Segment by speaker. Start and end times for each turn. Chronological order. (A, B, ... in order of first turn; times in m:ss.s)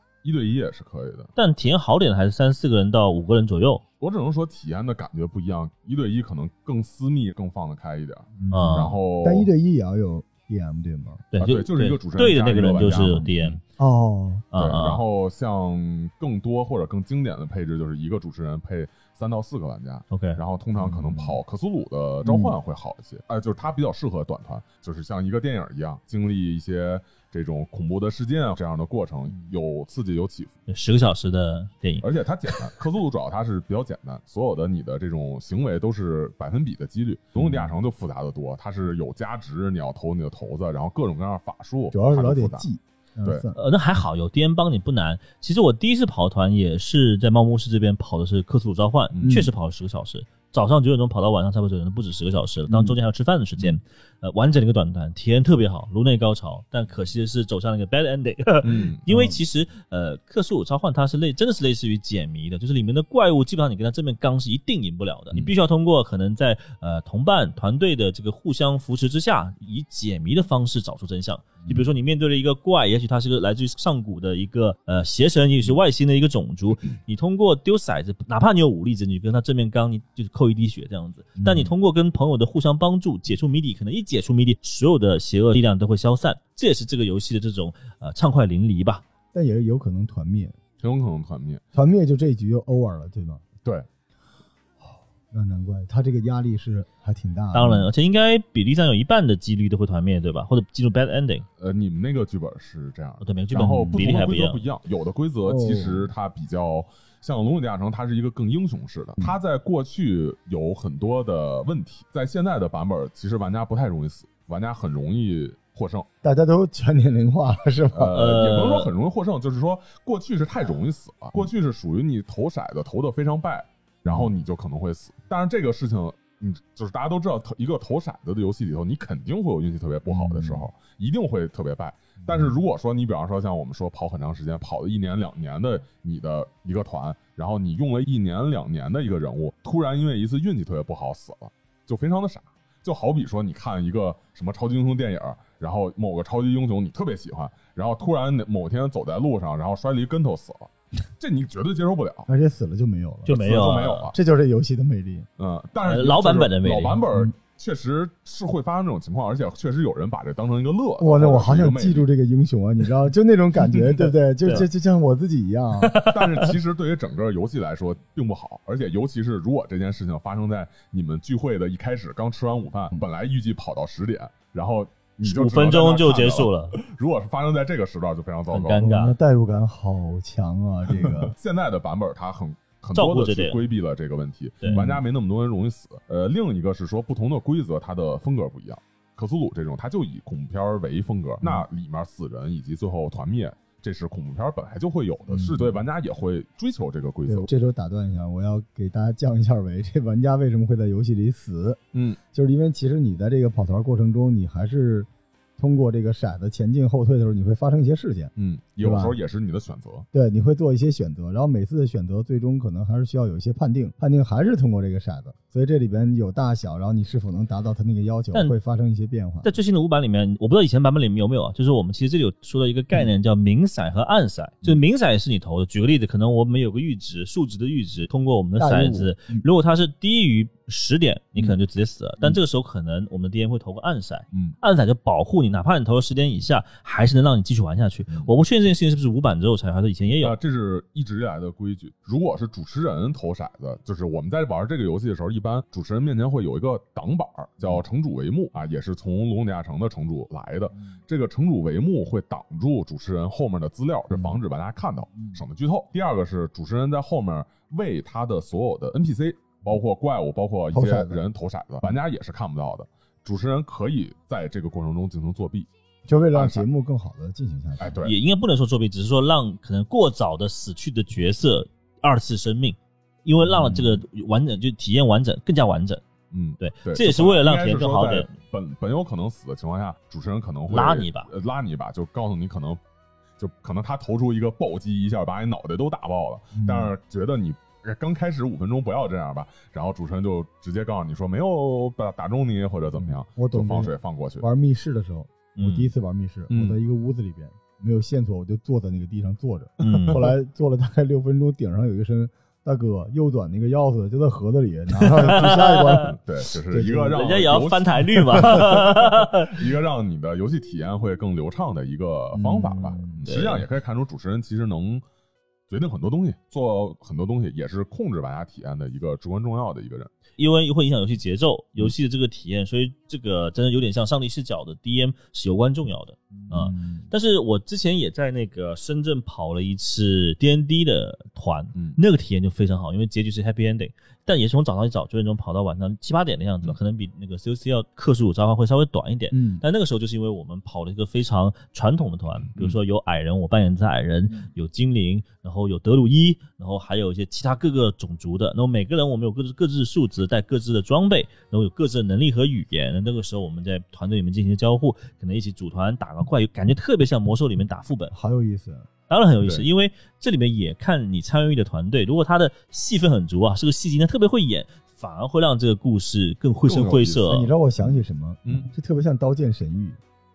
0:00.2-0:01.3 A
0:01.4-0:03.8 B
0:04.0-0:09.5 A
0:08.4-0:11.3 C
0:08.5-0:08.9 B
0:11.3-0:13.6 B
0:11.4-0:13.6 A
0:13.8-0:14.5 C
0:14.5-0:15.0 B
0:14.5-0:30.5 A
0:20.1-0:20.4 B
0:20.8-0:21.4 C
0:22.2-0:22.5 C
0:30.7-0:32.0 B
0:32.0-0:42.6 A
0:37.4-0:37.7 C
0:41.9-0:43.6 C
0:43.5-1:29.0 B
0:49.1-0:49.4 A
0:49.2-0:49.5 C
0:52.7-0:53.0 C
0:58.6-0:59.0 A
0:59.1-0:59.4 C
1:21.4-1:21.7 C
1:29.3-1:30.6 C
1:30.8-1:31.6 A
1:31.7-1:33.4 C
1:34.9-1:37.9 C
1:37.5-1:41.4 B
1:41.6-1:56.1 A
1:43.2-1:44.6 B
1:43.6-1:44.0 C
1:45.5-1:46.1 C
1:56.2-1:58.2 C
1:57.9-2:32.3 A
1:58.1-1:58.9 B
2:10.0-2:10.7 C
2:12.3-2:12.5 C
2:32.3-2:35.3 C
2:33.2-2:34.1 B
2:33.3-2:34.1 A
2:35.4-2:42.0 A
2:35.8-2:37.0 B
2:41.0-2:46.0 C
2:45.8-2:46.5 B
2:46.0-2:58.8 A
2:55.2-2:56.8 B
2:58.5-2:59.1 B
2:58.8-3:01.3 C
3:00.9-3:17.5 A
3:02.9-3:03.6 B
3:04.6-3:04.9 B
3:04.6-3:05.0 C
3:15.3-3:15.8 C
3:17.2-3:21.8 C
3:21.9-3:22.2 A
3:22.3-3:29.2 C
3:28.4-3:30.0 A
3:30.1-3:39.5 C
3:39.4-4:00.4 B
3:48.6-3:49.4 C
4:00.2-4:25.7 A
4:14.1-4:14.4 C
4:20.7-4:21.2 C
4:26.1-4:28.0 C
4:26.3-4:26.6 A
4:27.8-4:28.1 A
4:28.0-4:36.0 B
4:33.6-4:33.9 C
4:36.3-4:42.8 A
4:36.6-4:38.3 B
4:40.7-4:41.3 B
4:43.4-4:54.4 A
4:46.5-4:46.9 C
4:53.0-5:07.3 C
4:55.6-4:55.9 B
4:56.5-4:56.8 A
4:59.8-5:00.3 B
5:05.0-5:06.2 B
5:06.1-5:15.0 A
5:07.1-5:09.6 B
5:12.3-5:13.4 C
5:13.2-5:13.6 B
5:15.7-5:20.1 A
5:20.4-5:58.1 B
5:26.4-5:27.1 C
5:39.3-5:39.6 C
5:58.1-5:58.9 C
5:59.1-6:07.5 B
5:59.4-5:59.6 A
6:06.6-6:07.3 A
6:07.2-6:10.0 C
6:07.8-6:08.7 A